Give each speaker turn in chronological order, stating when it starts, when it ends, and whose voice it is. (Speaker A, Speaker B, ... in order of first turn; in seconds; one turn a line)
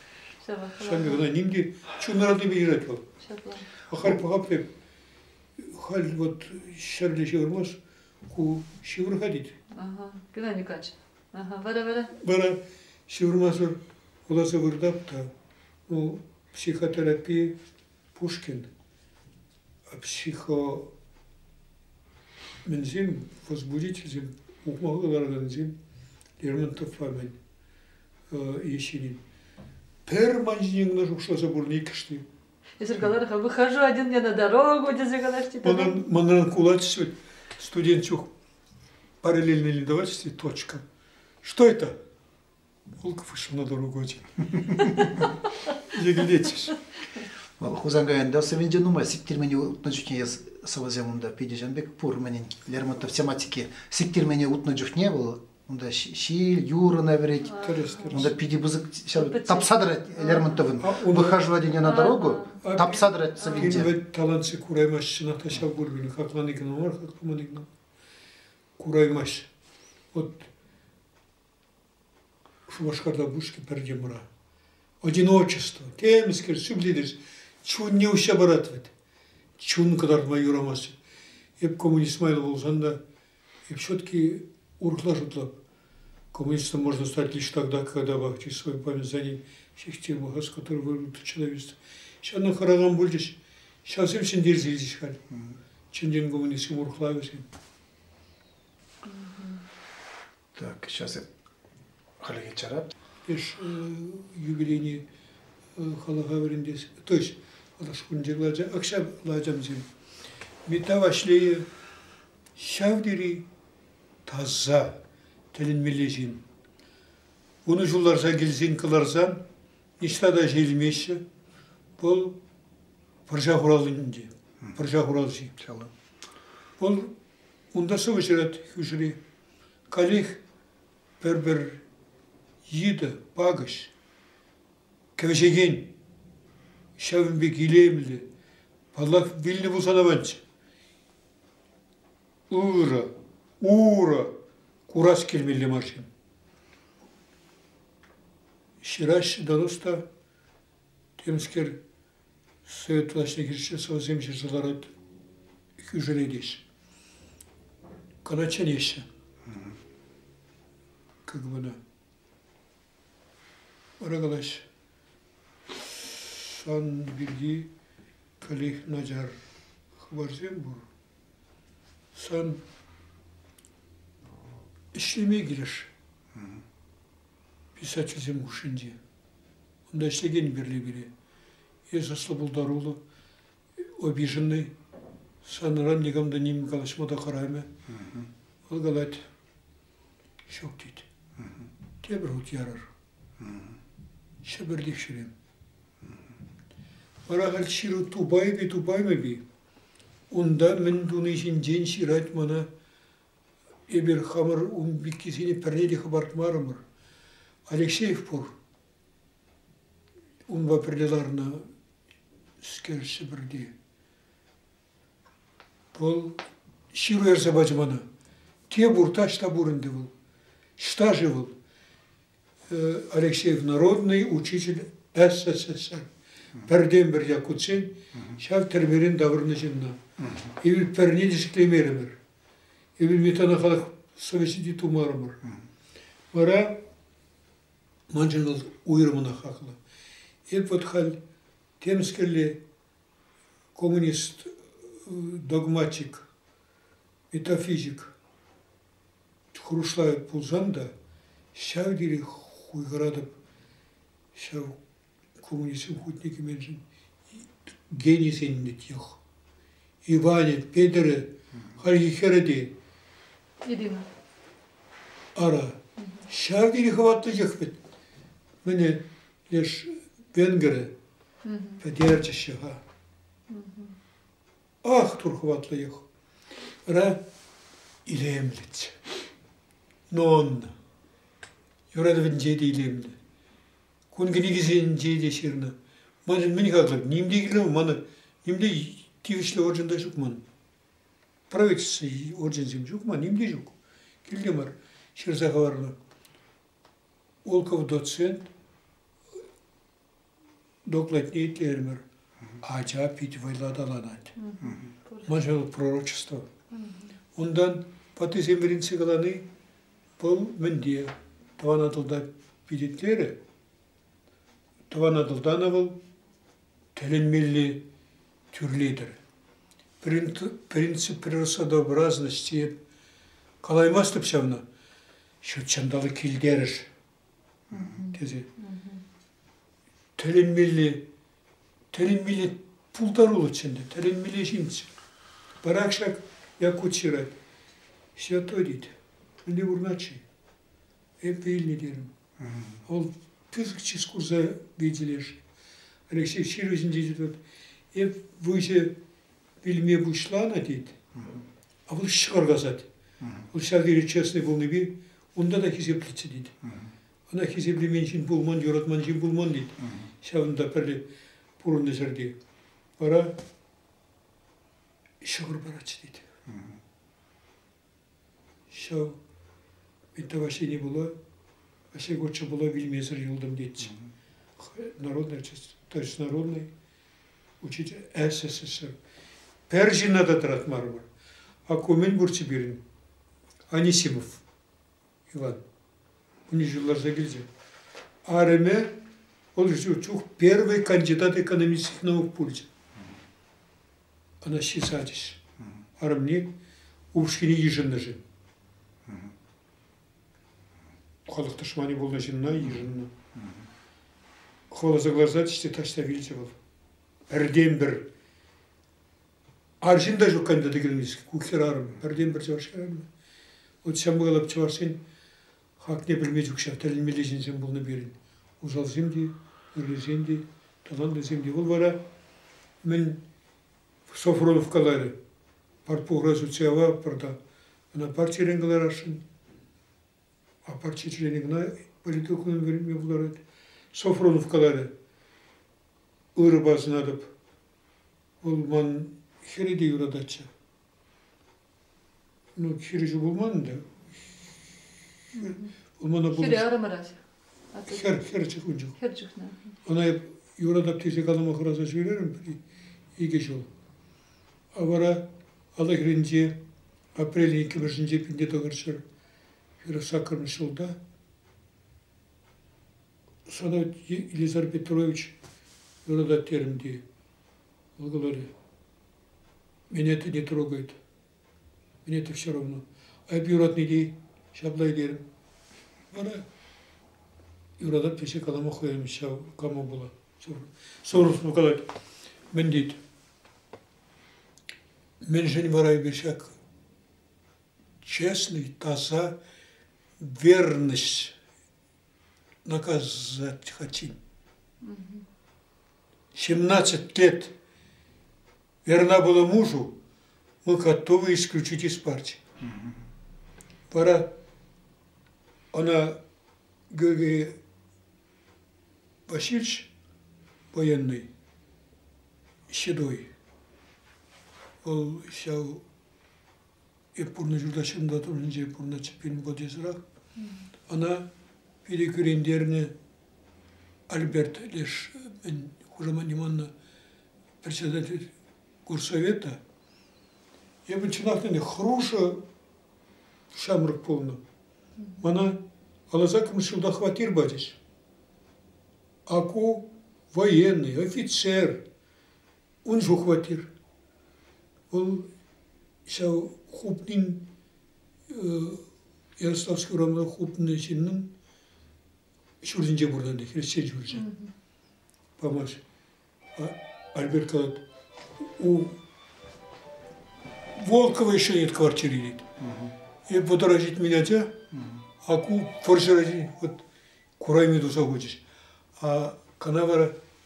Speaker A: 0.4-1.2
Speaker B: 0.8-3.0
Speaker A: 3.2-3.6
Speaker B: 3.8-4.7
Speaker B: 5.6-9.6
Speaker A: 9.7-12.1
Speaker B: 12.1-15.3
Speaker B: 15.9-17.6
Speaker B: 18.1-18.7
Speaker B: 19.9-20.9
Speaker B: 22.6-25.7
Speaker B: 26.4-27.4
Speaker B: 28.3-29.2
Speaker B: 30.1-32.2
Speaker A: 32.8-36.0
Speaker B: 35.6-38.3
Speaker B: 39.2-40.8
Speaker B: 41.4-41.9
Speaker B: 43.0-46.8
Speaker C: 47.6-63.9
Speaker A: 57.4-58.3
Speaker B: 57.6-58.4
Speaker A: 59.1-60.6
Speaker B: 60.8-61.5
Speaker A: 61.8-62.6
Speaker B: 62.6-67.7
Speaker A: 63.4-63.7
Speaker B: 68.8-69.5
Speaker B: 70.1-70.5
Speaker B: 72.7-74.3
Speaker B: 75.0-78.9
Speaker B: 79.6-81.0
Speaker B: 81.6-83.0
Speaker B: 83.7-85.6
Speaker B: 86.3-95.2
Speaker B: 95.9-97.5
Speaker A: 99.0-99.6
Speaker C: 100.5-101.3
Speaker C: 102.2-102.9
Speaker B: 103.2-105.0
Speaker B: 105.8-109.9
Speaker B: 110.7-111.7
Speaker B: 112.5-113.5
Speaker B: 114.2-115.0
Speaker B: 115.5-116.4
Speaker B: 117.6-119.4
Speaker B: 120.0-121.2
Speaker B: 122.0-122.4
Speaker B: 123.3-125.6
Speaker C: 125.6-125.9
Speaker B: 126.8-127.1
Speaker B: 127.7-129.2
Speaker B: 129.9-130.4
Speaker B: 131.2-131.8
Speaker B: 132.7-133.9
Speaker B: 135.2-135.9
Speaker B: 137.0-138.3
Speaker B: 138.9-140.4
Speaker B: 142.5-144.3
Speaker B: 144.9-146.1
Speaker B: 148.8-150.1
Speaker B: 151.2-151.8
Speaker B: 152.6-154.9
Speaker B: 155.8-156.6
Speaker B: 158.2-159.1
Speaker B: 161.2-161.8
Speaker B: 164.0-164.6
Speaker B: 166.1-167.7
Speaker B: 168.4-169.3
Speaker B: 170.0-170.8
Speaker B: 172.1-172.6
Speaker B: 174.9-175.9
Speaker B: 177.8-179.0
Speaker B: 179.9-181.1
Speaker B: 181.9-183.0
Speaker B: 183.8-184.7
Speaker B: 185.4-187.7
Speaker B: 188.7-189.2
Speaker B: 190.4-191.1
Speaker B: 192.0-192.9
Speaker C: 193.4-193.8
Speaker B: 194.4-195.3
Speaker B: 197.3-199.4
Speaker B: 200.3-202.7
Speaker B: 203.9-206.8
Speaker B: 207.7-208.5
Speaker B: 210.5-211.7
Speaker B: 212.6-213.7
Speaker B: 215.9-216.4
Speaker B: 216.9-218.0
Speaker B: 218.7-220.1
Speaker B: 220.8-221.5
Speaker B: 222.7-226.1
Speaker B: 226.6-230.0
Speaker B: 230.6-232.2
Speaker B: 233.0-235.4
Speaker B: 236.3-236.8
Speaker B: 238.1-239.8
Speaker B: 240.5-241.2
Speaker B: 241.8-242.6
Speaker B: 243.7-246.3
Speaker B: 247.3-248.1
Speaker B: 249.5-250.9
Speaker B: 251.5-253.4
Speaker B: 254.3-254.8
Speaker B: 255.4-256.8
Speaker B: 257.4-259.2
Speaker B: 260.0-262.7
Speaker A: 263.6-264.1
Speaker B: 265.3-267.8
Speaker B: 268.6-270.9
Speaker A: 271.4-271.8
Speaker B: 271.8-272.8
Speaker A: 273.5-274.0
Speaker B: 274.8-276.0
Speaker B: 276.8-277.2
Speaker B: 278.1-278.9
Speaker B: 280.1-280.7
Speaker B: 281.9-283.2
Speaker B: 284.1-285.7
Speaker B: 286.2-290.4
Speaker B: 291.5-295.9
Speaker B: 297.4-298.5
Speaker B: 300.8-302.0
Speaker B: 302.6-304.3
Speaker A: 304.4-305.3
Speaker B: 305.2-306.5
Speaker A: 306.7-307.1
Speaker B: 307.3-309.4
Speaker B: 310.2-313.4
Speaker B: 314.9-316.0
Speaker B: 316.9-317.8
Speaker B: 318.5-319.2
Speaker B: 320.0-322.8
Speaker B: 323.6-324.6
Speaker B: 325.4-326.9
Speaker A: 327.7-329.0
Speaker B: 328.0-328.5
Speaker B: 330.2-331.0
Speaker B: 331.9-334.9
Speaker B: 335.6-337.4
Speaker B: 338.1-340.2
Speaker B: 341.2-342.1
Speaker C: 342.4-342.8
Speaker B: 342.8-345.4
Speaker B: 346.1-347.4
Speaker B: 347.9-348.9
Speaker B: 349.6-351.0
Speaker B: 351.9-352.9
Speaker B: 353.5-356.6
Speaker B: 357.3-361.0
Speaker B: 361.6-362.4
Speaker B: 363.0-363.4
Speaker B: 365.2-366.3
Speaker C: 366.5-366.8
Speaker B: 368.7-369.2
Speaker B: 370.1-371.1
Speaker B: 371.9-374.0
Speaker B: 374.6-376.7
Speaker B: 377.6-378.9
Speaker B: 379.7-381.1
Speaker B: 381.6-382.8
Speaker B: 383.7-384.4
Speaker B: 385.3-385.6
Speaker B: 386.5-387.5
Speaker B: 388.2-389.0
Speaker B: 389.5-392.7
Speaker B: 394.4-395.4
Speaker B: 396.0-396.5
Speaker B: 397.1-398.2
Speaker B: 401.3-403.1
Speaker B: 404.7-406.6
Speaker B: 407.3-408.1
Speaker B: 409.8-413.1
Speaker B: 413.8-415.0
Speaker B: 415.8-422.0
Speaker B: 422.8-423.2
Speaker B: 424.1-425.1
Speaker B: 425.9-427.4
Speaker B: 427.9-429.2
Speaker B: 430.6-433.4
Speaker B: 433.9-434.9
Speaker B: 436.3-437.3
Speaker B: 438.4-440.5
Speaker B: 442.6-443.9
Speaker A: 445.3-445.7
Speaker B: 445.4-446.7
Speaker A: 446.3-447.2
Speaker A: 447.7-448.0
Speaker B: 447.9-449.0
Speaker A: 449.0-449.8
Speaker B: 449.8-452.6
Speaker B: 453.1-453.7
Speaker B: 454.7-456.6
Speaker B: 457.1-459.0
Speaker B: 459.8-461.0
Speaker B: 463.4-465.3
Speaker B: 466.0-467.0
Speaker B: 468.0-468.5
Speaker B: 469.9-471.0
Speaker B: 472.0-475.2
Speaker B: 476.1-476.4
Speaker B: 477.8-481.9
Speaker B: 482.5-483.0
Speaker B: 485.2-486.5
Speaker B: 488.0-489.4
Speaker B: 490.2-491.3
Speaker B: 492.6-494.2
Speaker A: 494.8-495.2
Speaker B: 496.3-497.5
Speaker B: 498.8-500.0
Speaker B: 500.6-502.4
Speaker B: 503.9-504.3
Speaker B: 505.7-506.2
Speaker B: 506.9-507.6
Speaker B: 509.3-509.9
Speaker B: 510.7-511.3
Speaker B: 512.7-513.3
Speaker B: 514.8-515.8
Speaker B: 517.1-520.0
Speaker B: 520.9-521.3
Speaker B: 521.8-522.9
Speaker B: 524.1-526.7
Speaker B: 527.6-528.3
Speaker B: 528.9-529.6
Speaker B: 530.9-532.4
Speaker B: 533.5-534.4
Speaker B: 535.2-535.6
Speaker B: 536.1-537.8
Speaker B: 539.2-541.8
Speaker B: 542.8-543.7
Speaker B: 544.9-545.3
Speaker B: 546.0-547.4
Speaker B: 548.3-548.8
Speaker B: 549.4-551.3
Speaker B: 552.6-554.3
Speaker A: 554.2-554.5
Speaker B: 555.4-555.8
Speaker B: 556.5-557.8
Speaker B: 558.4-559.0
Speaker B: 560.7-562.5
Speaker C: 562.6-562.9
Speaker B: 563.3-564.6
Speaker C: 564.7-565.0
Speaker B: 565.2-566.8
Speaker B: 567.4-568.4
Speaker B: 569.0-570.1